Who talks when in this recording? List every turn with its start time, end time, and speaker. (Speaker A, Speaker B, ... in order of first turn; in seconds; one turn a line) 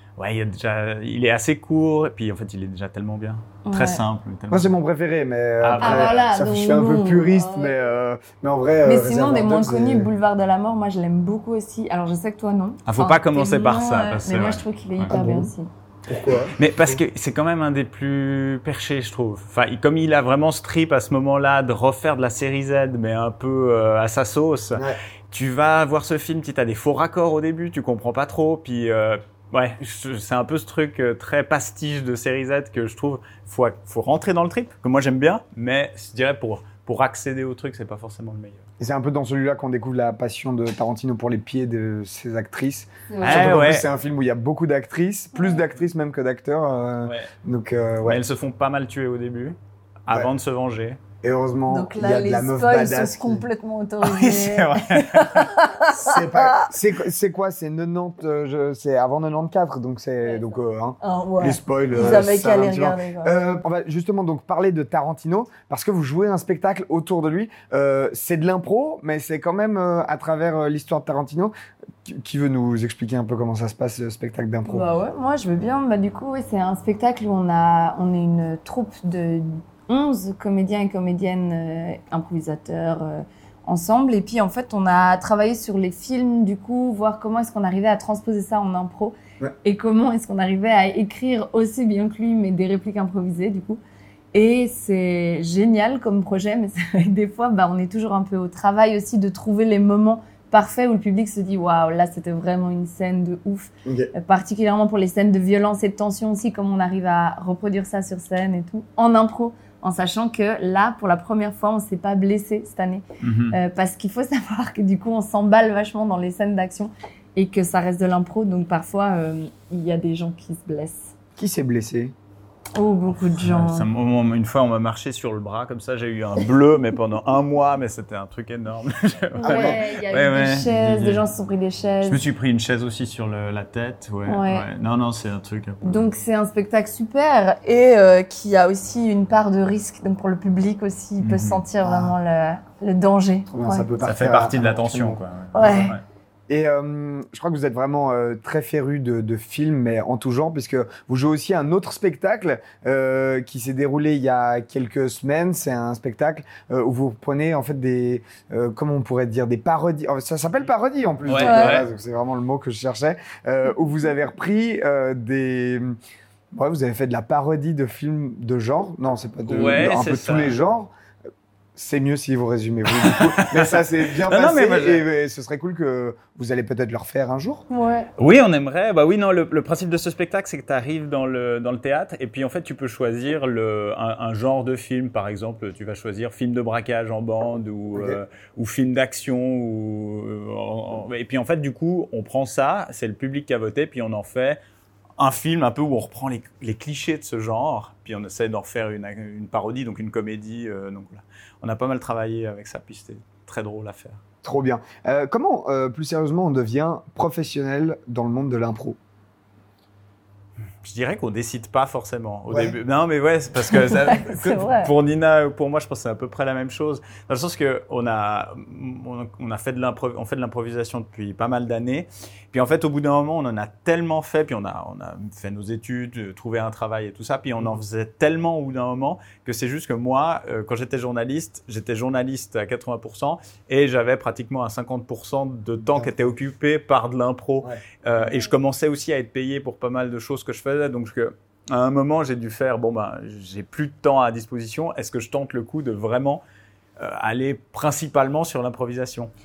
Speaker A: 0.2-4.7
Speaker B: 3.6-4.0
Speaker C: 4.5-10.1
Speaker A: 5.6-6.3
Speaker B: 5.8-7.8
Speaker B: 8.8-15.7
Speaker A: 12.9-15.2
Speaker C: 15.1-15.5
Speaker C: 16.1-17.0
Speaker A: 16.6-38.6
Speaker C: 38.8-48.2
Speaker B: 43.1-43.5
Speaker A: 43.2-43.9
Speaker A: 47.0-47.3
Speaker A: 48.0-49.6
Speaker A: 50.1-51.0
Speaker C: 51.2-53.5
Speaker B: 51.7-56.7
Speaker A: 54.0-55.6
Speaker C: 55.9-71.5
Speaker B: 61.0-63.4
Speaker C: 72.0-74.9
Speaker B: 74.7-93.8
Speaker B: 94.3-121.2
Speaker C: 103.8-104.1
Speaker A: 113.2-113.6
Speaker C: 121.4-122.1
Speaker B: 122.8-123.9
Speaker A: 123.1-131.3
Speaker B: 129.4-132.2
Speaker C: 129.4-129.8
Speaker A: 132.0-136.1
Speaker B: 134.3-134.7
Speaker B: 135.8-143.9
Speaker A: 141.2-141.6
Speaker C: 141.8-142.1
Speaker C: 143.5-145.7
Speaker A: 144.0-146.0
Speaker B: 145.5-146.0
Speaker C: 146.5-166.0
Speaker A: 161.3-161.8
Speaker B: 161.4-161.8
Speaker C: 166.5-170.9
Speaker A: 169.5-170.6
Speaker C: 171.8-177.6
Speaker A: 172.9-175.1
Speaker B: 177.7-178.1
Speaker A: 178.2-194.6
Speaker C: 187.9-188.2
Speaker A: 195.2-204.2
Speaker C: 204.4-209.0
Speaker A: 210.8-246.4
Speaker C: 212.5-212.8
Speaker B: 213.7-214.9
Speaker A: 247.0-249.3